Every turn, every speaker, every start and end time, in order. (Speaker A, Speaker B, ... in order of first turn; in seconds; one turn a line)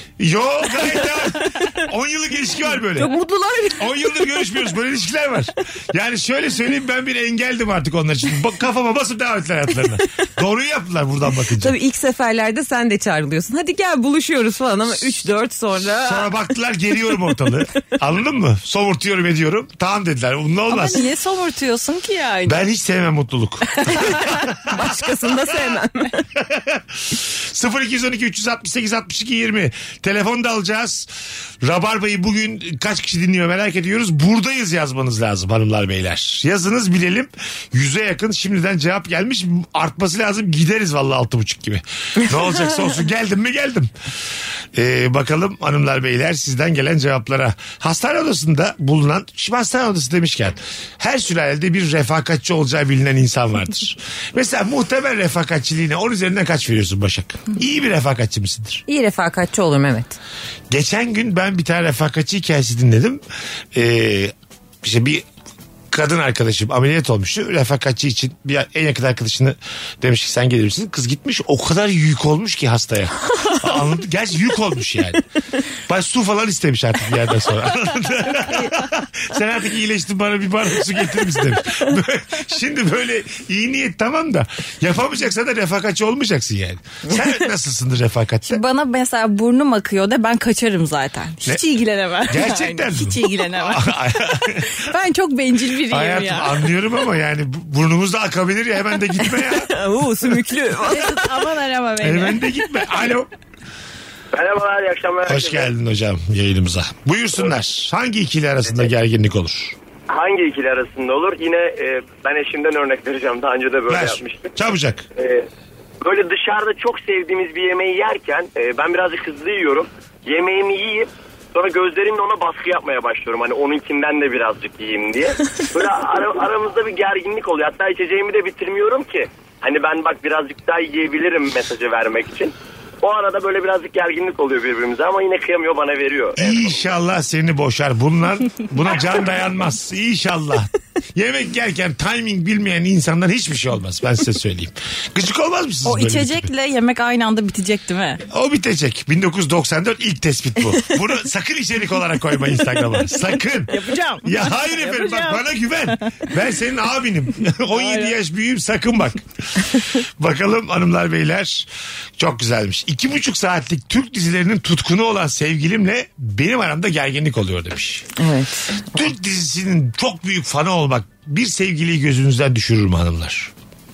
Speaker A: 0.2-3.2
Speaker B: 3.0-4.3
Speaker A: 3.8-11.8
Speaker B: 11.6-16.3
Speaker A: 15.8-21.1
Speaker C: 20.7-22.6
Speaker A: 22.5-25.8
Speaker B: 23.9-26.2
Speaker A: 26.4-31.1
Speaker A: 31.6-43.9
Speaker A: 44.7-58.8
Speaker B: 58.9-60.2
Speaker A: 60.7-63.2
Speaker A: 63.7-65.2
Speaker A: 65.9-75.2
Speaker A: 75.9-88.6
Speaker C: 88.5-93.9
Speaker A: 92.3-94.7
Speaker C: 94.6-96.6
Speaker A: 95.9-99.7
Speaker B: 99.4-101.4
Speaker C: 100.9-102.4
Speaker A: 102.0-103.3
Speaker D: 104.3-105.7
Speaker A: 105.3-109.8
Speaker D: 110.1-114.5
Speaker A: 113.9-115.0
Speaker D: 115.2-115.5
Speaker D: 116.0-136.9
Speaker A: 136.4-146.5
Speaker C: 145.8-148.2
Speaker A: 148.3-159.2
Speaker C: 153.7-156.2
Speaker C: 157.7-158.2
Speaker A: 160.2-161.7
Speaker A: 162.2-168.1
Speaker B: 168.2-168.9
Speaker A: 168.9-173.5